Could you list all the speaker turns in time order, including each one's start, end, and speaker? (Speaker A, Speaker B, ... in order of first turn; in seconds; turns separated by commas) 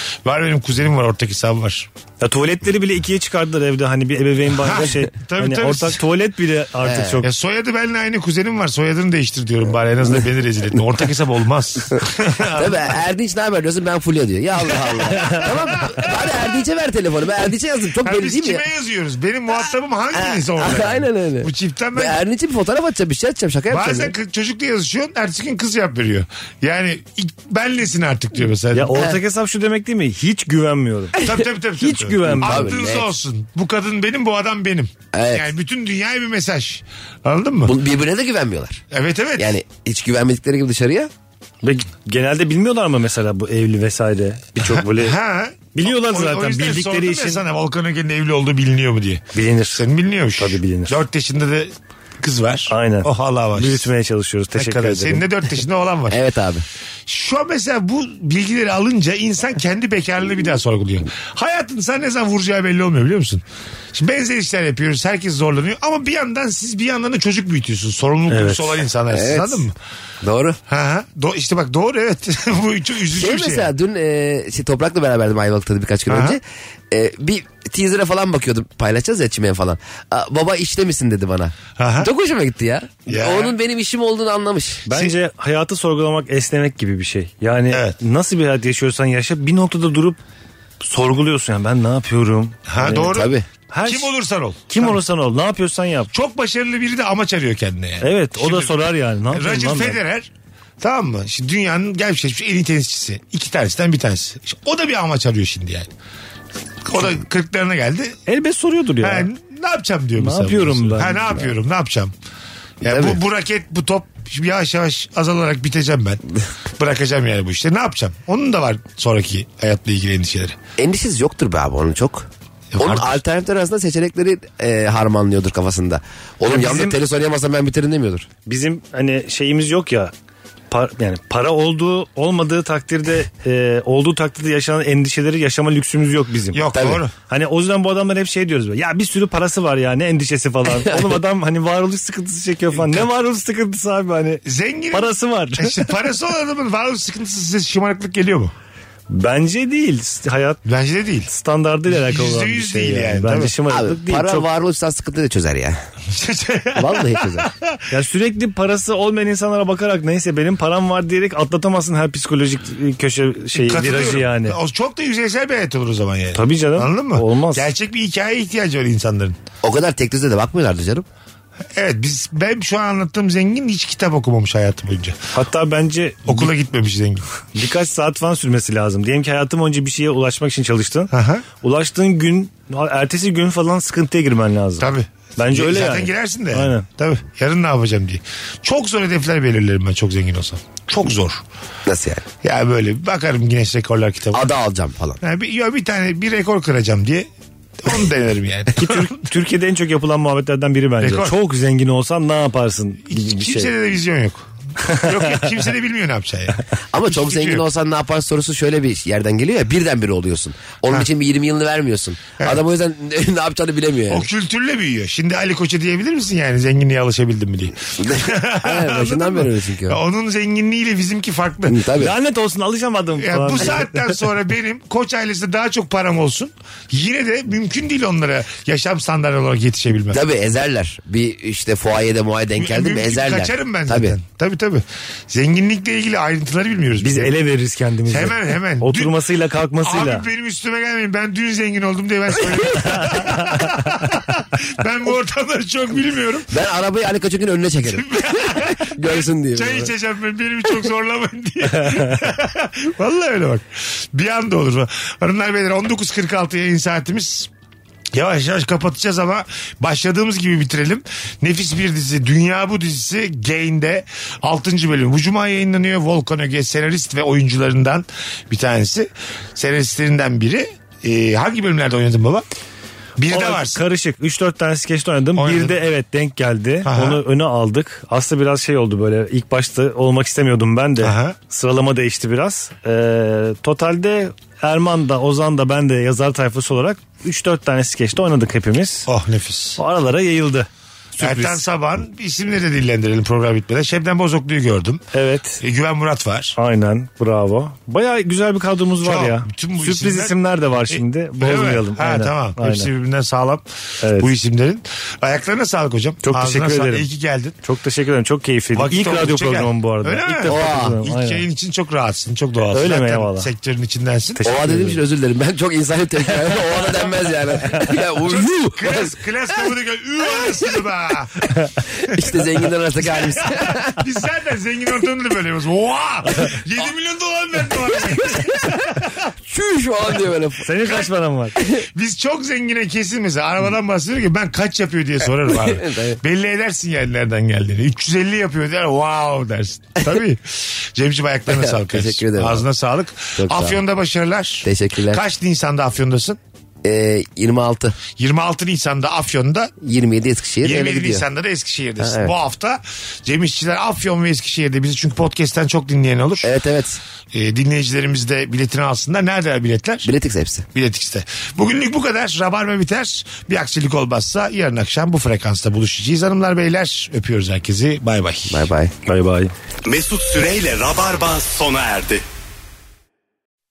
Speaker A: 0.2-1.9, Speaker B: 2.2-7.3, Speaker A: 4.5-6.0, Speaker C: 6.8-7.2, Speaker A: 7.2-12.9, Speaker C: 12.5-18.6, Speaker A: 14.7-16.3, Speaker A: 18.0-22.2, Speaker C: 20.1-24.1, Speaker A: 23.7-29.0, Speaker B: 28.7-31.2, Speaker C: 28.9-29.2, Speaker A: 31.2-37.7, Speaker B: 31.8-32.8, Speaker C: 32.3-33.1, Speaker C: 35.1-35.5, Speaker C: 37.6-38.8, Speaker A: 38.9-39.5, Speaker C: 39.4-41.1, Speaker B: 41.6-45.1, Speaker A: 44.6-53.9, Speaker B: 45.7-47.4, Speaker B: 49.3-49.8, Speaker B: 50.4-51.0, Speaker B: 52.7-55.2, Speaker A: 54.5-56.2, Speaker C: 56.1-56.6, Speaker A: 57.1-69.8, Speaker B: 68.3-68.6, Speaker C: 69.1-69.6, Speaker C: 70.2-70.6, Speaker A: 70.7-73.7, Speaker C: 73.1-84.8, Speaker A: 76.1-76.4, Speaker A: 81.8-82.1, Speaker A: 83.1-83.5, Speaker B: 84.8-90.2, Speaker B: 90.8-93.2, Speaker A: 92.7-95.0, Speaker C: 92.9-93.5, Speaker B: 93.7-94.1, Speaker B: 94.7-96.1, Speaker A: 96.1-105.9, Speaker B: 98.0-100.0, Speaker A: 106.8-108.2, Speaker B: 108.3-109.3, Speaker A: 109.0-112.1, Speaker B: 110.2-111.5, Speaker A: 112.8-116.2, Speaker C: 112.8-113.2, Speaker A: 116.7-120.6, Speaker C: 120.8-128.3, Speaker A: 122.7-123.2, Speaker B: 126.5-127.0, Speaker B: 128.4-130.1, Speaker B: 130.7-136.6, Speaker A: 136.5-137.1, Speaker C: 136.7-137.0, Speaker B: 137.3-145.8, Speaker C: 140.8-141.2, Speaker A: 142.8-143.0, Speaker A: 144.4-148.5, Speaker B: 149.1-150.6, Speaker A: 150.6-151.3, Speaker B: 151.3-154.5, Speaker A: 151.9-153.5, Speaker C: 153.7-155.8, Speaker A: 156.1-157.8, Speaker C: 156.7-157.5, Speaker B: 157.9-164.6, Speaker A: 163.5-169.3, Speaker B: 166.3-167.7, Speaker C: 169.6-171.1, Speaker A: 171.7-175.2, Speaker B: 175.3-176.5, Speaker A: 176.2-177.3, Speaker B: 177.5-186.9, Speaker A: 181.1-181.4, Speaker A: 184.8-191.4, Speaker C: 191.8-192.2, Speaker A: 192.4-194.5, Speaker C: 194.3-195.2, Speaker A: 195.2-197.3, Speaker A: 197.8-199.1, Speaker B: 198.8-203.7, Speaker A: 201.0-201.3, Speaker A: 203.1-207.6, Speaker C: 206.9-214.3, Speaker A: 214.1-221.8, Speaker C: 218.0-220.0, Speaker C: 221.7-222.1, Speaker B: 222.0-224.0, Speaker A: 223.2-230.2, Speaker C: 230.1-234.2, Speaker A: 232.6-237.3, Speaker B: 237.0-240.2, Speaker A: 238.1-239.2, Speaker A: 239.8-246.5, Speaker B: 243.2-243.6, Speaker C: 246.5-249.9, Speaker A: 247.8-257.5, Speaker A: 258.1-272.4, Speaker A: 273.2-273.8, Speaker B: 273.3-289.1, Speaker A: 275.4-275.8, Speaker A: 276.9-277.2, Speaker A: 281.0-281.4, Speaker A: 289.1-289.8, Speaker B: 289.8-291.6, Speaker A: 291.2-295.0, Speaker B: 295.1-295.6, Speaker A: 295.6-296.6, Speaker B: 296.6-302.9, Speaker A: 299.0-307.6, Speaker B: 304.0-304.3, Speaker B: 306.2-307.1, Speaker B: 307.6-311.4, Speaker A: 308.7-314.4, Speaker C: 310.5-311.0, Speaker B: 312.7-313.5, Speaker B: 314.4-315.0, Speaker C: 314.4-319.1, Speaker B: 316.5-316.8, Speaker B: 317.6-318.0, Speaker A: 318.2-321.5, Speaker C: 322.0-323.9, Speaker A: 323.0-329.0, Speaker C: 328.1-328.7, Speaker C: 329.4-330.7, Speaker B: 330.6-331.6, Speaker A: 330.8-331.1, Speaker A: 331.7-346.4, Speaker C: 335.5-336.2, Speaker C: 341.5-342.7, Speaker C: 343.4-343.8, Speaker C: 344.6-345.2, Speaker C: 346.8-347.9, Speaker A: 348.1-349.7, Speaker C: 349.8-351.2, Speaker A: 350.6-356.5, Speaker C: 352.0-352.3, Speaker C: 356.4-357.0, Speaker A: 357.3-360.1, Speaker C: 360.0-360.7, Speaker A: 360.7-368.6, Speaker C: 368.5-368.9, Speaker B: 369.1-369.5, Speaker D: 369.8-372.2